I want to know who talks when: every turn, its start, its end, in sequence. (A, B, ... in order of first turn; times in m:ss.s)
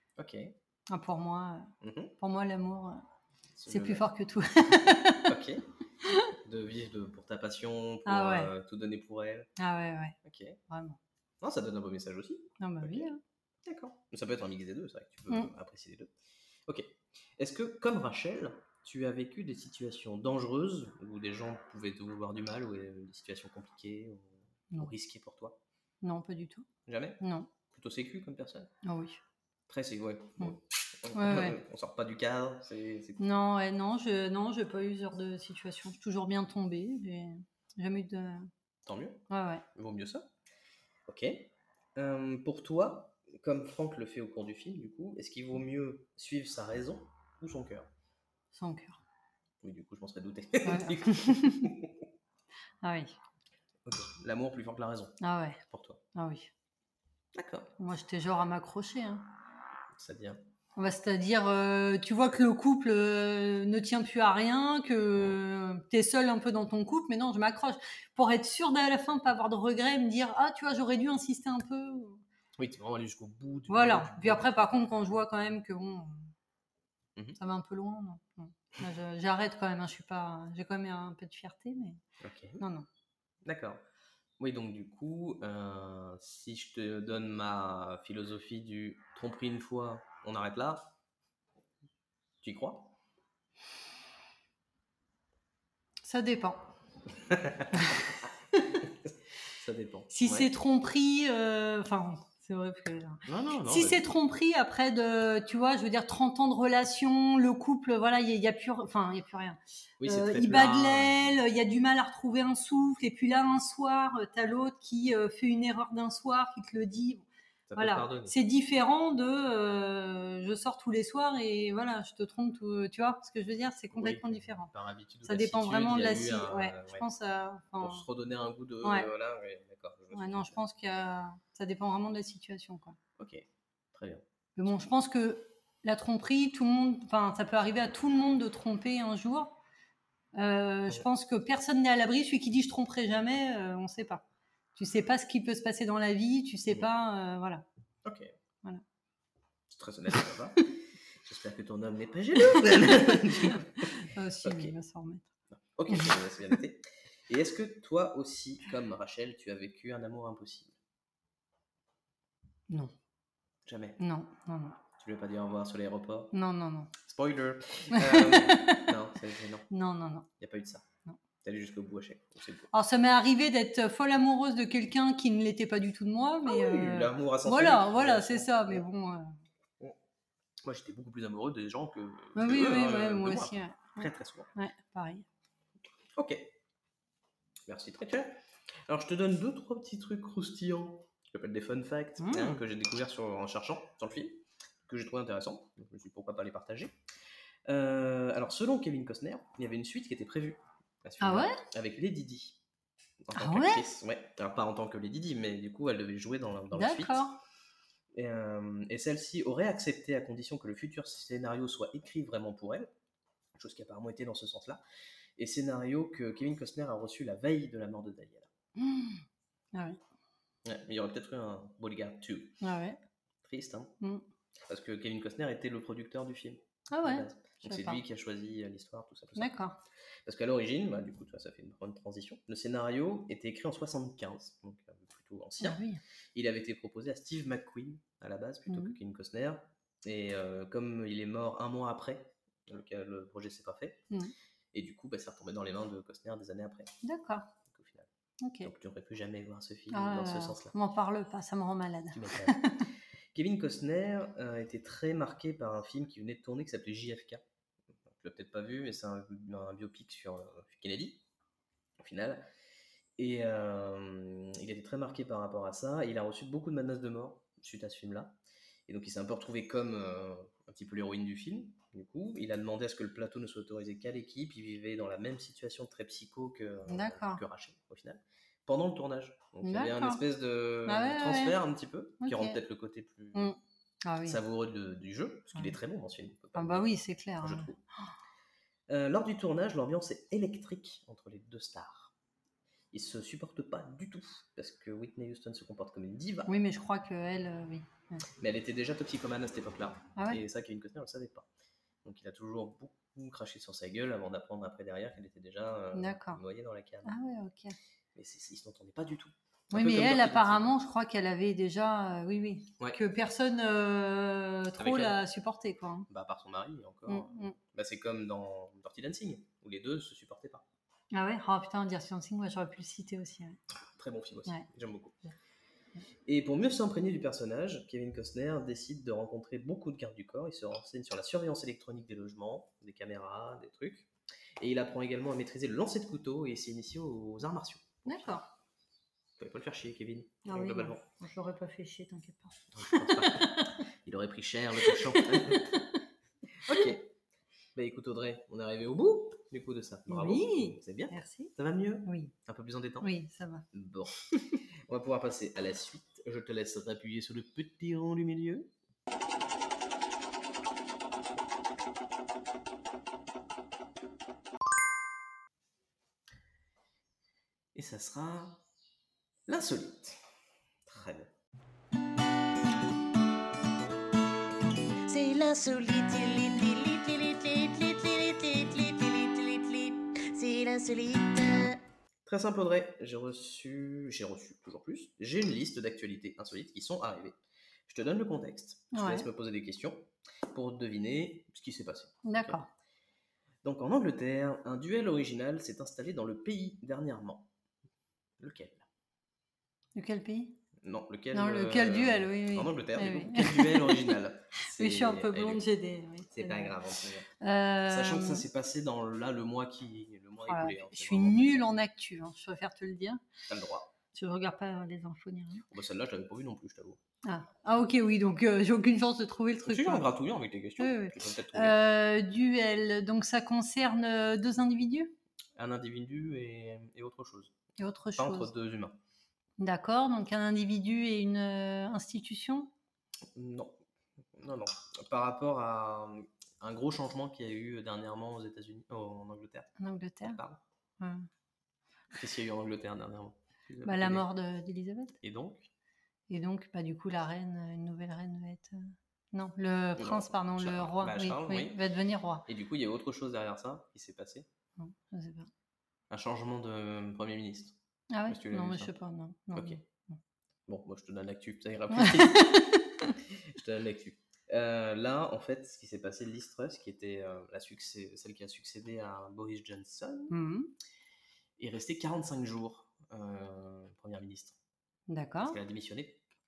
0:00.2-0:00.5 A
0:00.9-0:03.0 B
0:01.8-0:02.1 A
0:03.6-0:04.1 A
0:03.7-0:05.4 B
0:05.2-0:05.6 A
0:06.0-0:06.3 B
0:06.4-0:09.5 A
0:08.1-0:08.5 B
0:09.6-0:10.2 B
0:10.2-0:10.6 A
0:10.7-0:11.0 B
0:11.4-0:13.1 A
0:12.6-0:13.2 B
0:13.6-0:16.1 A
0:16.7-0:25.6 A
0:26.0-0:26.7 B
0:26.9-0:28.7 A
0:27.2-0:27.5 B
0:28.8-0:29.2 B
0:29.7-0:33.2 A
0:31.1-0:31.6 B
0:33.2-0:38.5 B
0:38.9-0:40.3 A
0:39.3-0:39.6 B
0:41.1-0:47.9 A
0:48.5-0:49.0 B
0:49.6-0:51.9 A
0:50.6-0:51.7 B
0:52.8-0:53.2 B
0:53.9-0:56.0 A
0:55.2-0:55.6 B
0:56.2-0:56.5 B
0:57.4-0:57.7 A
0:57.8-0:59.3 B
1:00.0-1:00.4 A
1:00.8-1:12.2 B
1:12.6-1:14.7 A
1:13.7-1:16.3 B
1:17.4-1:22.0 B
1:22.2-1:22.6 A
1:22.6-1:22.9 B
1:23.4-1:23.8 A
1:24.4-1:30.9 A
1:32.4-1:33.0 A
1:36.0-1:36.7 B
1:37.3-1:37.8 A
1:37.8-1:38.1 B
1:39.5-1:40.5 A
1:40.1-2:04.7 B
1:43.3-1:44.0 A
1:50.0-1:51.4 A
1:57.7-1:58.4 A
2:03.9-2:07.0 A
2:05.2-2:08.1 B
2:07.8-2:10.6 A
2:08.8-2:09.1 B
2:10.1-2:13.0 B
2:13.2-2:14.2 A
2:14.6-2:19.6 B
2:20.4-2:24.2 B
2:24.8-2:27.6 B
2:28.0-2:28.3 A
2:29.7-2:33.8 A
2:32.5-2:35.3 B
2:34.4-2:34.7 A
2:35.5-2:40.8 A
2:43.7-2:44.0 A
2:44.0-2:44.8 B
2:45.0-2:46.3 A
2:46.3-2:46.9 B
2:47.0-2:49.7 A
2:47.9-2:48.9 B
2:49.7-2:50.3 B
2:50.4-2:50.8 A
2:51.4-2:52.7 A
2:52.7-2:59.3 B
2:56.4-2:58.8 A
3:00.6-3:04.5 A
3:02.4-3:05.3 B
3:06.2-3:06.5 A
3:07.7-3:16.9 A
3:12.2-3:12.6 B
3:17.7-3:22.6 A
3:21.2-3:21.6 B
3:23.2-3:27.3 A
3:23.4-3:23.8 B
3:26.7-3:27.4 B
3:28.1-3:32.9 A
3:33.6-3:34.8 A
3:35.4-3:38.5 A
3:38.8-3:40.0 B
3:40.6-3:42.6 A
3:42.6-3:43.0 B
3:43.4-3:43.9 A
3:44.7-3:49.6 A
3:46.9-3:48.0 B
3:49.4-3:49.8 B
3:50.3-3:55.8 A
3:55.6-3:56.0 B
3:56.4-4:04.0 A
3:58.7-3:59.0 B
4:04.7-4:06.9 A
4:07.0-4:07.5 B
4:07.7-4:08.1 A
4:08.4-4:08.7 B
4:08.6-4:10.8 A
4:09.9-4:12.8 B
4:12.1-4:12.7 A
4:13.3-4:17.4 A
4:18.1-4:21.2 A
4:22.0-4:22.5 A
4:23.2-4:28.4 A
4:28.9-4:43.6 A
4:36.9-4:37.4 B
4:39.6-4:40.2 B
4:40.8-4:41.6 B
4:42.2-4:42.6 B
4:43.3-4:44.4 B
4:44.2-4:47.8 A
4:46.6-4:47.7 B
4:48.9-4:52.1 A
4:52.9-4:56.5 A
4:56.5-4:58.2 B
4:58.4-5:01.5 A
5:00.2-5:00.4 B
5:02.0-5:07.2 A
5:05.9-5:06.4 B
5:07.0-5:07.8 B
5:08.2-5:10.7 A
5:09.7-5:16.1 B
5:14.8-5:15.2 A
5:16.1-5:20.6 A
5:17.1-5:17.6 B
5:21.1-5:23.6 B
5:24.0-5:25.2 A
5:26.3-5:34.1 A
5:34.6-5:38.4 A
5:38.1-5:38.5 B
5:39.4-5:41.0 A
5:40.4-5:43.7 B
5:42.7-5:45.8 A
5:44.8-5:46.0 B
5:46.6-5:47.1 A
5:47.8-5:53.1 A
5:50.1-5:51.5 B
5:52.0-5:52.3 B
5:53.0-5:53.6 B
5:53.7-5:54.2 A
5:54.9-5:58.7 A
6:07.8-6:08.6 A
6:09.5-6:10.3 A
6:10.9-6:11.3 A
6:15.1-6:21.8 C
6:22.3-6:32.6 A
6:28.9-6:29.3 B
6:32.2-6:32.7 B
6:33.6-6:37.5 A
6:38.4-6:38.9 A
6:40.0-6:40.6 B
6:40.8-6:45.6 A
6:41.3-6:46.8 B
6:46.3-6:47.3 A
6:47.4-6:48.5 B
6:47.9-6:51.6 A
6:50.5-6:53.2 B
6:53.5-6:53.9 A
6:54.1-6:55.6 B
6:55.7-6:57.0 A
6:57.2-7:00.1 B
6:59.7-7:01.8 A
7:00.8-7:05.1 B
7:05.6-7:07.6 A
7:07.8-7:08.5 B
7:08.2-7:09.0 A
7:09.6-7:12.7 B
7:13.4-7:13.8 A
7:14.4-7:19.7 A
7:19.8-7:20.4 B
7:20.2-7:20.6 A
7:21.0-7:21.3 B
7:22.1-7:24.3 A
7:23.8-7:25.2 B
7:25.2-7:25.7 A
7:26.3-7:32.4 B
7:30.0-7:31.8 A
7:32.5-7:34.5 A
7:34.8-7:35.5 B
7:36.1-7:38.9 A
7:38.1-7:40.2 B
7:39.5-7:39.8 A
7:40.7-7:50.4 A
7:41.9-7:43.2 B
7:50.3-7:50.7 B
7:51.6-7:54.6 A
7:55.1-7:55.6 B
7:55.4-7:56.2 A